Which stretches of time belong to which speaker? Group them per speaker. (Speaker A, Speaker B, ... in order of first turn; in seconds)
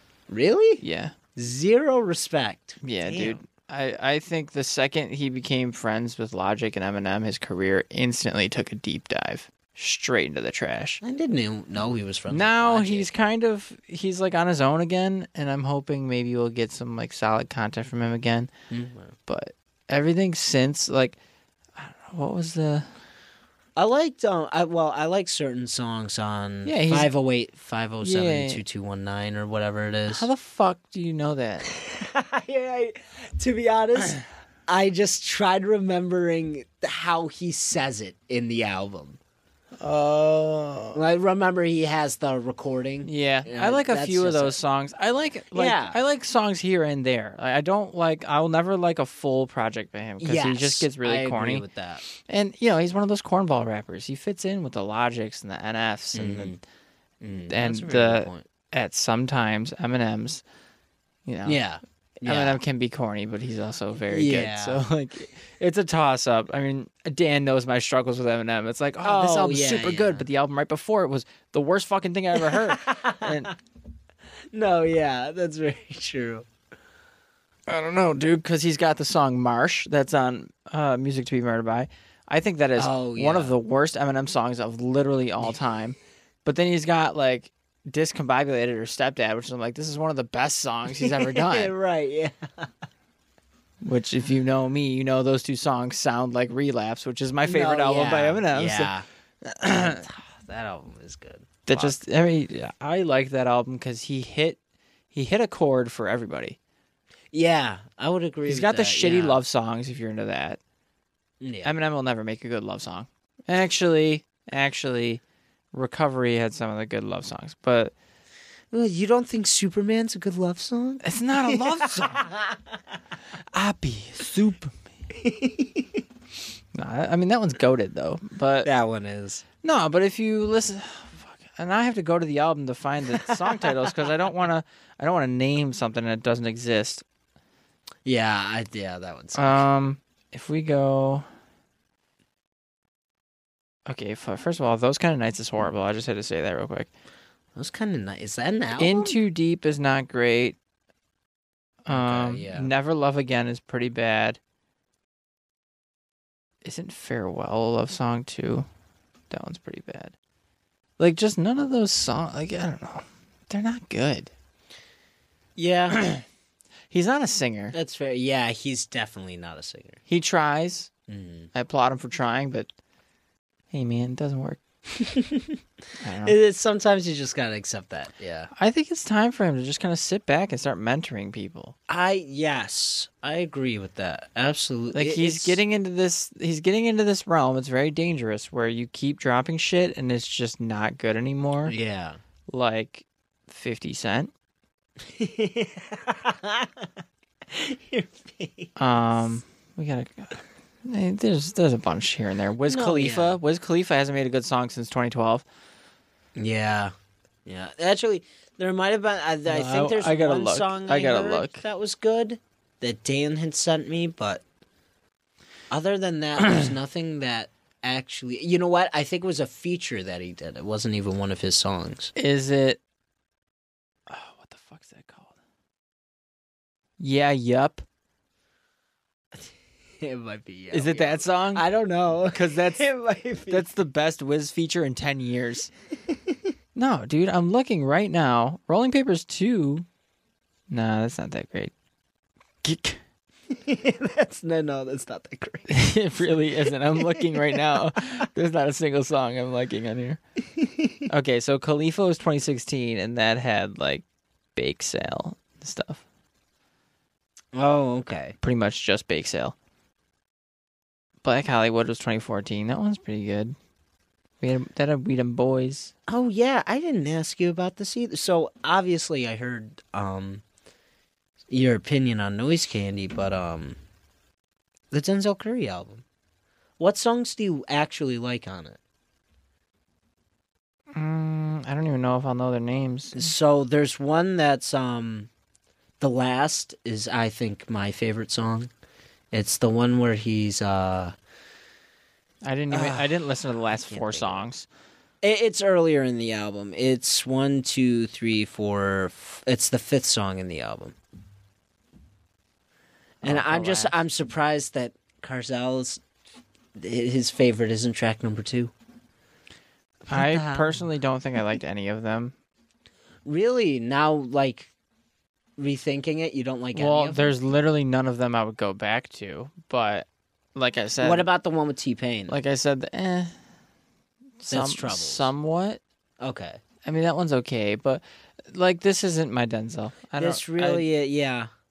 Speaker A: 0.3-0.8, 1.4-3.4, 11.0-13.1, 18.7-19.1, 23.8-30.3, 31.6-39.2, 40.9-44.6, 45.5-46.0, 50.2-52.0, 56.1-56.6, 57.2-58.5, 61.5-62.6, 64.1-64.8, 69.0-70.2, 72.3-73.5, 74.5-76.5, 82.8-83.5, 90.9-92.7, 97.4-99.0, 99.7-102.0, 107.3-109.4, 111.4-111.7, 118.7-122.6, 125.1-126.0, 128.6-129.4, 133.1-134.0, 138.0-139.6, 147.5-149.2, 151.9-152.7, 165.6-166.0, 167.7-170.0, 171.1-171.5, 174.9-175.6, 176.2-178.5, 181.9-185.6, 191.7-192.2, 195.0-196.9, 197.5-198.8, 202.7-203.4, 206.3-206.9, 207.4-214.4, 215.7-222.1, 229.3-233.7, 243.5-245.9, 246.7-247.8, 250.6-251.0, 257.5-258.4, 266.1-270.4, 271.5-273.8, 274.9-276.0, 276.8-278.8, 283.1-285.3, 286.0-288.7, 289.3-291.1, 292.7-293.2, 293.9-294.4, 295.2-300.9, 303.2-306.0, 306.8-308.7, 310.1-310.8, 313.2-314.7, 315.6-317.3, 321.0-322.4, 324.5-325.3, 326.2-326.6, 330.1-331.5
Speaker B: 0.8-1.1, 2.8-11.0, 12.3-18.5, 19.3-21.2, 21.8-22.9, 26.6-27.1, 28.0-28.6, 30.1-31.7, 39.8-41.0, 43.0-56.6, 57.5-60.4, 61.2-61.6, 62.2-73.5, 77.7-91.7, 93.8-98.9, 99.4-100.0, 101.7-104.6, 105.1-106.6, 108.5-110.6, 111.6-115.2, 115.7-117.9, 121.0-122.3, 123.5-124.7, 126.7-128.7, 129.6-137.0, 139.3-141.2, 143.8-146.9, 148.8-150.6, 151.8-154.4, 156.6-158.7, 159.3-160.1, 161.0-164.3, 165.9-166.2, 166.9-167.7, 170.1-170.9, 171.5-172.7, 173.7-174.6, 176.0-176.3, 178.5-181.7, 184.9-191.7, 192.5-194.3, 198.8-205.4, 209.5-211.6, 222.2-222.8, 224.1-225.3, 227.0-227.8, 230.7-231.6, 232.3-232.8, 233.5-235.7, 236.7-239.8, 240.7-241.7, 242.6-243.0, 245.7-250.2, 251.1-254.0, 254.5-256.0, 258.4-259.5, 261.2-263.5, 264.4-265.9, 280.9-283.3, 292.4-294.7, 303.2-304.0, 310.1-312.3, 316.7-321.2, 322.3-323.3, 324.4-325.8, 326.8-330.8